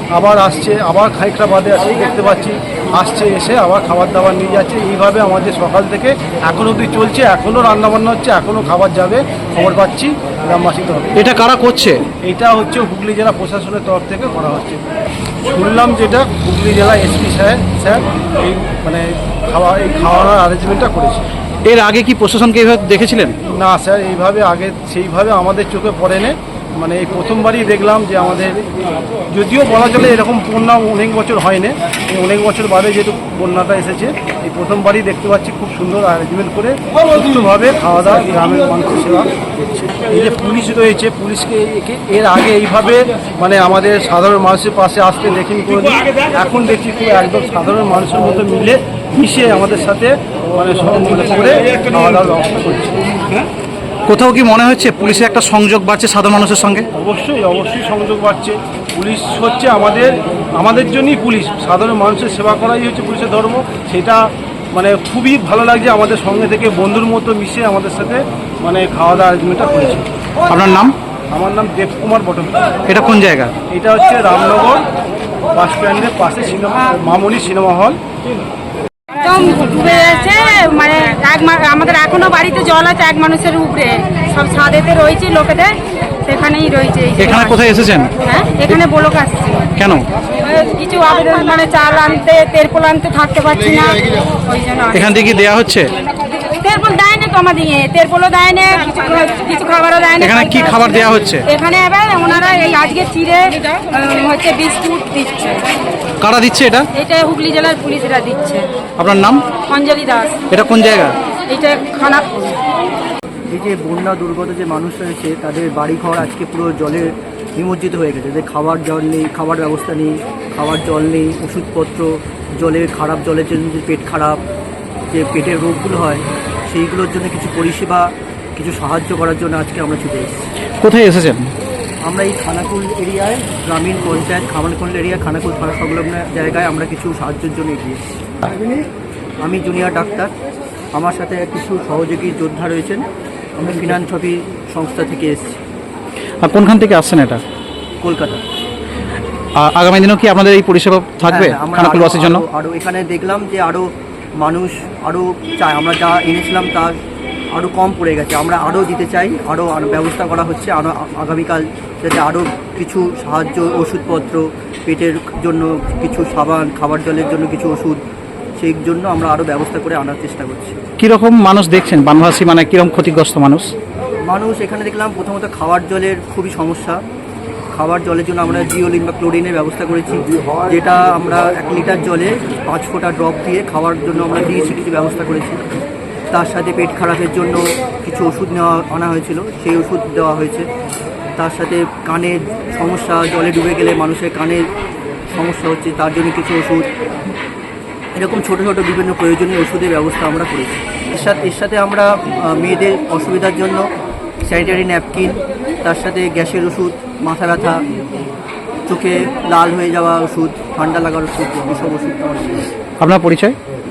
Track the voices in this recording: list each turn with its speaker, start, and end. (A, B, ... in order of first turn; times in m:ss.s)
0:00.2-0:11.1 A
0:11.2-0:12.0 B
0:12.2-0:14.8 A
0:15.4-0:21.3 A
0:21.6-0:23.4 B
0:23.5-0:28.6 A
0:29.3-0:53.0 A
0:54.1-0:56.9 B
0:57.0-1:10.1 A
1:10.5-1:10.9 B
1:11.3-1:12.8 A
1:12.9-1:13.5 B
1:13.7-1:14.8 A
1:15.5-1:18.0 A
1:19.2-1:29.7 C
1:27.2-1:28.1 B
1:29.8-1:30.0 B
1:30.4-1:35.1 C
1:34.9-1:35.9 B
1:36.4-1:45.7 C
1:40.2-1:41.4 B
1:46.2-1:46.9 B
1:46.9-1:48.7 C
1:49.0-1:49.6 B
1:49.6-1:50.4 C
1:50.5-1:51.2 B
1:51.5-1:52.6 C
1:53.5-2:04.4 D
2:05.1-2:10.4 D
2:10.8-2:11.5 B
2:12.0-2:18.0 D
2:19.4-2:20.3 D
2:20.9-2:25.6 D
2:26.4-2:27.4 B
2:28.0-2:28.4 D
2:29.6-2:32.4 B
2:31.2-2:37.0 D
2:37.5-2:48.0 D
2:48.6-2:50.8 D
2:51.0-2:53.7 B
2:54.3-2:57.0 D
2:57.7-3:05.6 D
3:06.3-3:10.7 D
3:11.4-3:14.6 D
3:15.3-3:16.9 D
3:18.2-3:23.8 D
3:24.4-3:27.8 D
3:28.9-3:32.7 D
3:33.0-3:33.6 B